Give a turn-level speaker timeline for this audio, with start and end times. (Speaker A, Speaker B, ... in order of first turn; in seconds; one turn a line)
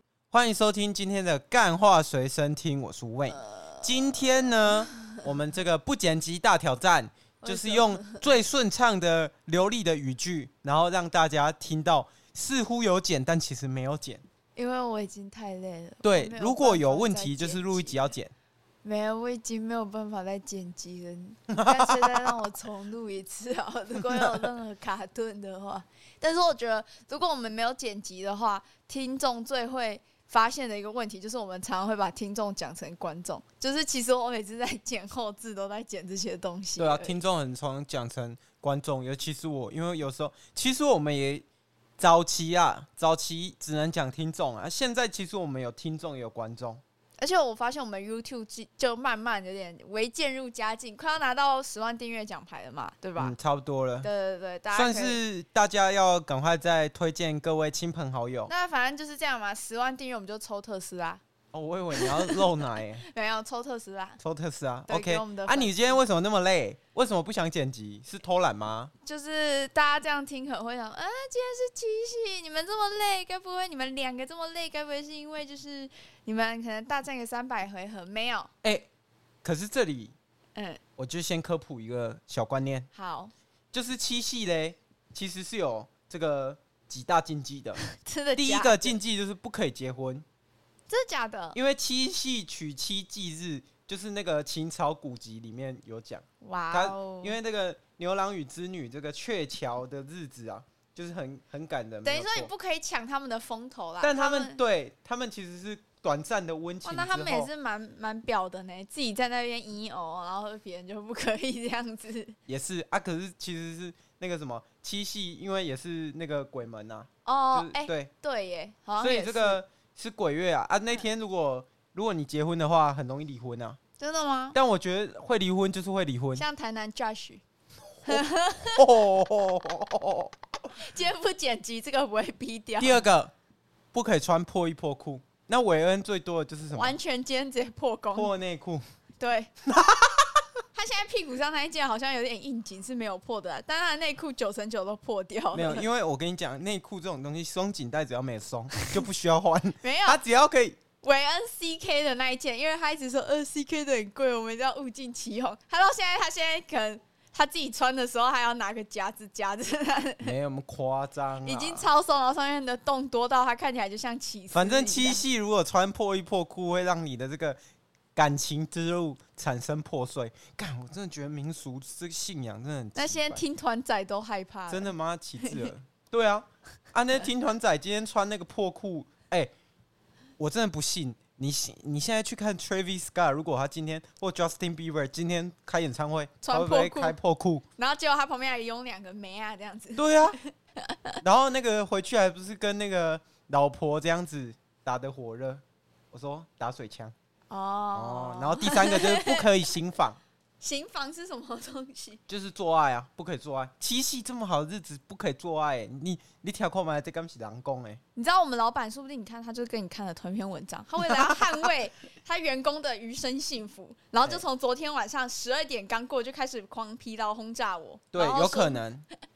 Speaker A: 0.3-14.2
Speaker B: 3.3-5.2
Speaker B: 7.4-8.3
Speaker B: 14.6-18.1
Speaker A: 16.0-18.3
Speaker B: 18.8-37.2
Speaker A: 21.5-22.1
Speaker A: 36.8-41.4
Speaker A: 42.0-46.8
Speaker B: 47.2-53.3
Speaker A: 53.2-54.1
Speaker B: 54.0-55.2
Speaker A: 54.7-58.5
Speaker B: 58.5-61.2
Speaker A: 61.5-63.0
Speaker B: 61.9-64.2
Speaker A: 64.2-68.9
Speaker B: 64.9-66.0
Speaker B: 69.0-78.5
Speaker A: 79.4-80.1
Speaker B: 80.5-80.8
Speaker A: 81.0-82.9
Speaker B: 82.9-83.3
Speaker A: 83.7-87.8
Speaker B: 87.8-89.0
Speaker A: 88.3-90.2
Speaker B: 90.9-91.6
Speaker A: 91.5-102.5
Speaker B: 96.4-97.4
Speaker B: 102.0-104.6
Speaker A: 104.0-107.5
Speaker B: 106.8-112.3
Speaker A: 112.5-118.1
Speaker B: 117.2-119.6
Speaker A: 119.0-123.8
Speaker B: 124.0-124.5
Speaker A: 124.5-126.4
Speaker B: 126.3-127.4
Speaker B: 128.0-129.0
Speaker A: 128.0-130.3
Speaker B: 130.8-133.0
Speaker A: 132.8-133.3
Speaker A: 133.9-136.9
Speaker B: 136.7-138.3
Speaker A: 138.1-138.8
Speaker B: 139.2-139.5
Speaker A: 139.6-140.4
Speaker B: 140.7-145.9
Speaker A: 145.5-150.8
Speaker B: 149.8-150.2
Speaker B: 151.0-160.3
Speaker A: 160.2-161.9
Speaker B: 161.4-165.2
Speaker A: 164.5-167.6
Speaker A: 168.1-173.4
Speaker B: 172.9-175.7
Speaker A: 174.7-179.5
Speaker A: 180.4-187.6
Speaker B: 186.4-187.2
Speaker B: 187.8-191.2
Speaker A: 189.9-190.3
Speaker A: 191.2-197.1
Speaker B: 197.5-199.4
Speaker A: 197.9-200.2
Speaker B: 200.6-202.2
Speaker A: 202.3-208.0
Speaker B: 208.1-218.9
Speaker A: 211.0-211.4
Speaker A: 218.1-219.0